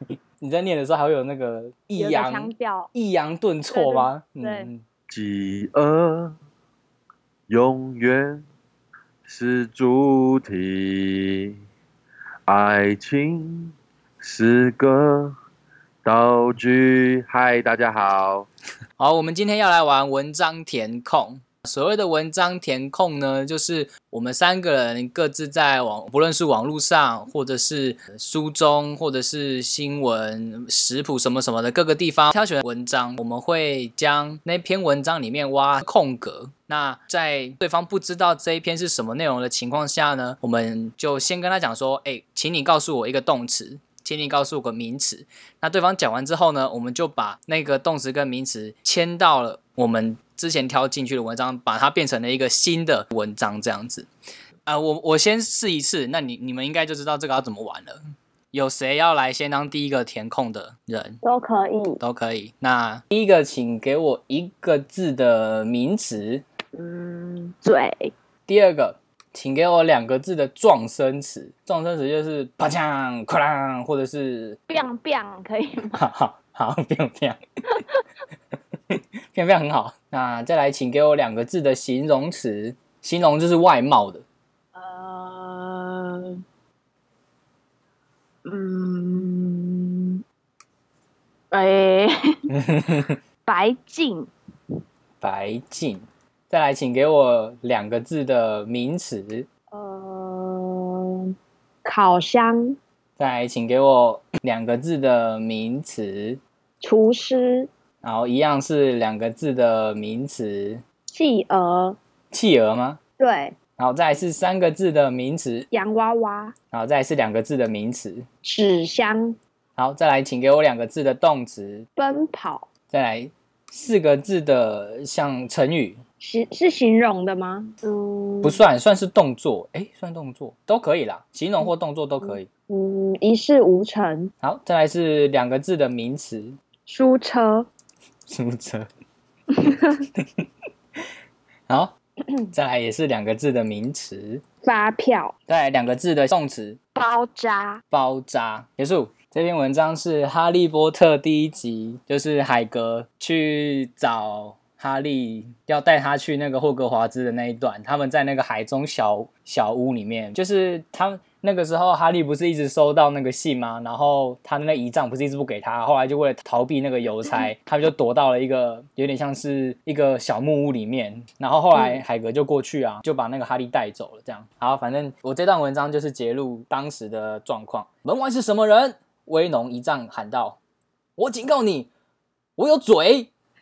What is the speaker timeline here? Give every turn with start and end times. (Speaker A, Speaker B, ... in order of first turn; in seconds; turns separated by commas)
Speaker A: 0.4-4.8, Speaker B: 2.0-2.9, Speaker B: 3.7-4.7, Speaker C: 5.1-6.3, Speaker C: 7.5-8.4, Speaker C: 9.2-11.6, Speaker C: 12.5-15.3, Speaker C: 16.0-18.5, Speaker A: 19.0-54.1, Speaker A: 54.6-58.0, Speaker A: 58.5-61.2, Speaker B: 61.2-62.0, Speaker A: 62.0-66.4, Speaker B: 66.7-68.1, Speaker A: 68.5-74.6, Speaker B: 74.7-76.0, Speaker A: 75.9-77.4, Speaker B: 77.8-78.0, Speaker A: 78.9-84.2, Speaker B: 84.7-86.4, Speaker B: 88.4-90.2, Speaker B: 91.5-92.3, Speaker A: 92.5-93.2, Speaker B: 93.4-94.3, Speaker A: 95.2-99.5, Speaker B: 99.7-101.3, Speaker B: 101.8-102.8, Speaker A: 103.2-106.4, Speaker B: 106.8-107.7, Speaker A: 108.0-110.8, Speaker B: 111.1-112.0, Speaker A: 112.3-113.0, Speaker B: 113.2-113.5, Speaker A: 113.8-115.7, Speaker B: 115.7-116.5, Speaker A: 116.7-118.2, Speaker B: 118.4-119.3, Speaker A: 119.8-121.8, Speaker B: 122.0-122.7, Speaker A: 122.9-126.0, Speaker B: 126.2-128.6, Speaker A: 128.4-132.5, Speaker B: 132.2-134.3, Speaker A: 134.4-136.6, Speaker B: 136.8-137.7, Speaker A: 138.3-138.8, Speaker B: 139.6-140.1, Speaker A: 141.7-141.9, Speaker A: 142.5-144.4, Speaker B: 144.6-145.3, Speaker A: 145.5-146.8, Speaker B: 146.9-147.8, Speaker A: 147.9-180.6, Speaker B: 171.7-172.0, Speaker A: 181.2-181.9, Speaker A: 182.6-183.3